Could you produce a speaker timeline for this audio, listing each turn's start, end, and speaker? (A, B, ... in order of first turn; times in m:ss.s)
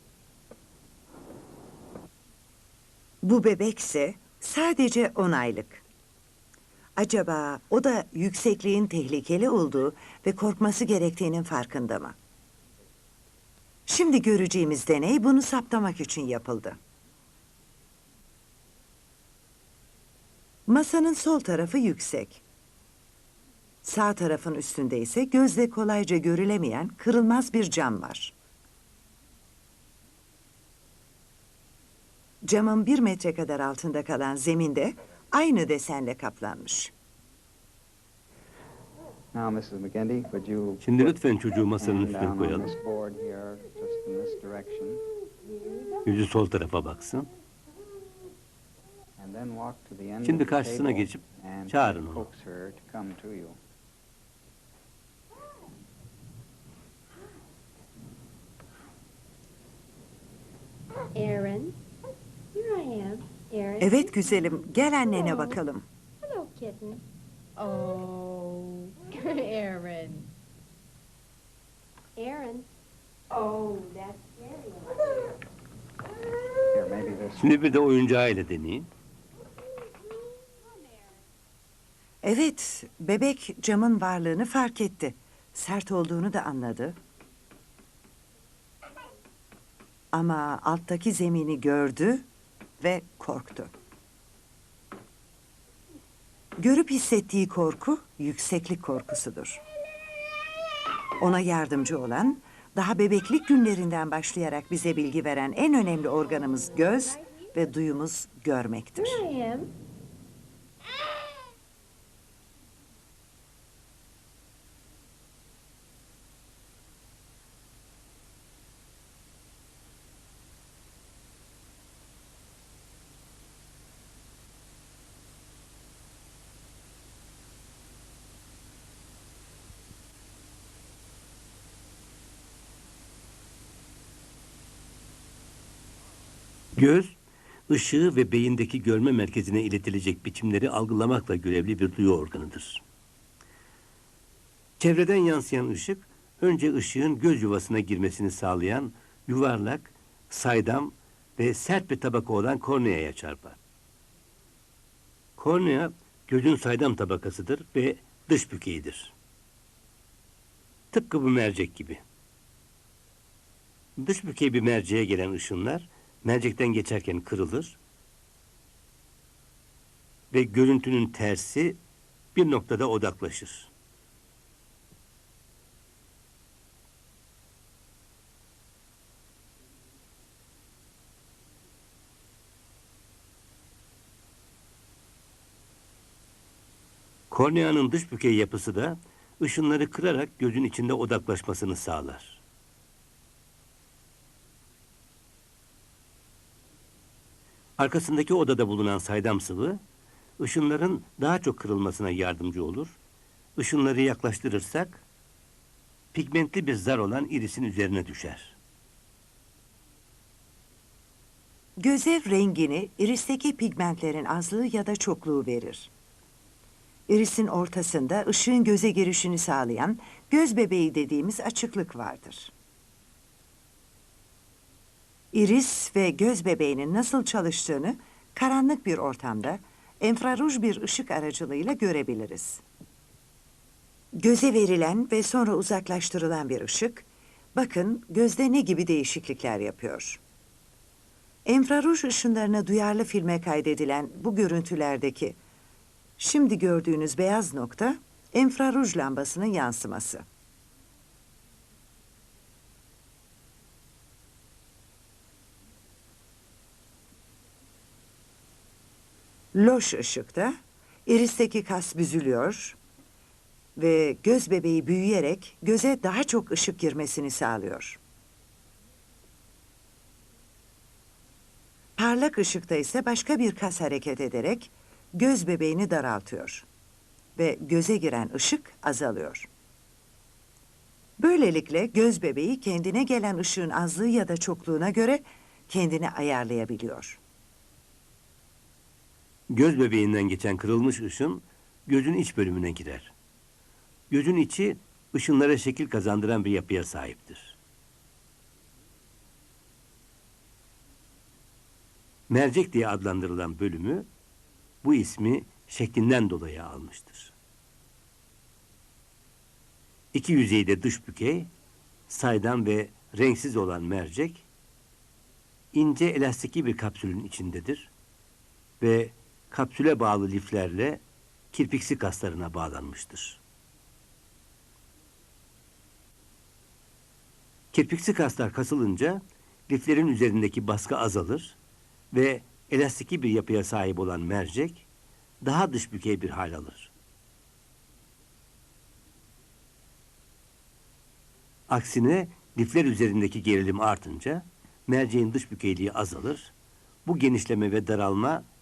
0:03.2-0:05.8 A
0:07.0-0:12.2 A
0:13.9-0:16.8 A
0:20.7-0:22.4 A
0:23.8-0:28.4 A
0:32.4-0:36.9 A
0:39.3-0:41.2 B
0:40.8-0:42.8 C
0:41.8-0:45.0 B
0:46.0-0:47.3 C
0:49.2-0:53.6 B
0:50.2-0:52.3 C
1:01.2-1:01.8 D
1:02.5-1:04.0 D
1:03.8-1:05.9 A
1:06.2-1:07.0 D
1:07.6-1:10.3 D
1:12.2-1:12.7 D
1:13.3-1:14.9 D
1:16.7-1:17.5 B
1:17.4-1:18.9 C
1:22.2-1:27.0 A
1:30.1-1:32.2 A
1:32.8-1:33.7 A
1:36.6-1:39.6 A
1:41.2-1:49.3 A
1:49.0-1:49.7 D
2:16.8-2:17.2 C
2:17.7-2:22.8 C
2:24.8-2:33.6 C
2:35.4-2:39.1 C
2:40.9-2:42.0 C
2:44.0-2:47.8 C
2:50.3-2:51.8 C
2:52.4-2:53.7 C
3:07.3-3:12.4 C
3:17.8-3:19.8 C
3:20.4-3:23.0 C
3:23.6-3:25.0 C
3:26.1-3:28.6 C
3:31.8-3:35.9 A
3:37.1-3:42.5 A
3:45.3-3:52.6 A
3:54.2-4:00.2 A
4:01.4-4:05.4 A
4:06.2-4:10.2 A
4:19.5-4:20.6 A
4:21.1-4:22.8 A
4:23.8-4:28.0 A
4:32.0-4:36.7 A
4:37.4-4:39.5 A
4:41.2-4:47.2 A
4:49.5-4:53.1 C
4:54.1-4:57.6 C
5:02.3-5:04.1 C
5:04.8-5:07.3 C
5:10.1-5:11.5 C
5:12.1-5:14.5 C
5:15.7-5:17.9 C
5:18.8-5:21.0 C
5:21.5-5:23.4 C
5:27.7-5:31.6 C
5:32.1-5:34.9 C
5:35.4-5:36.9 C
5:41.7-5:46.5 C
5:47.1-5:48.5 C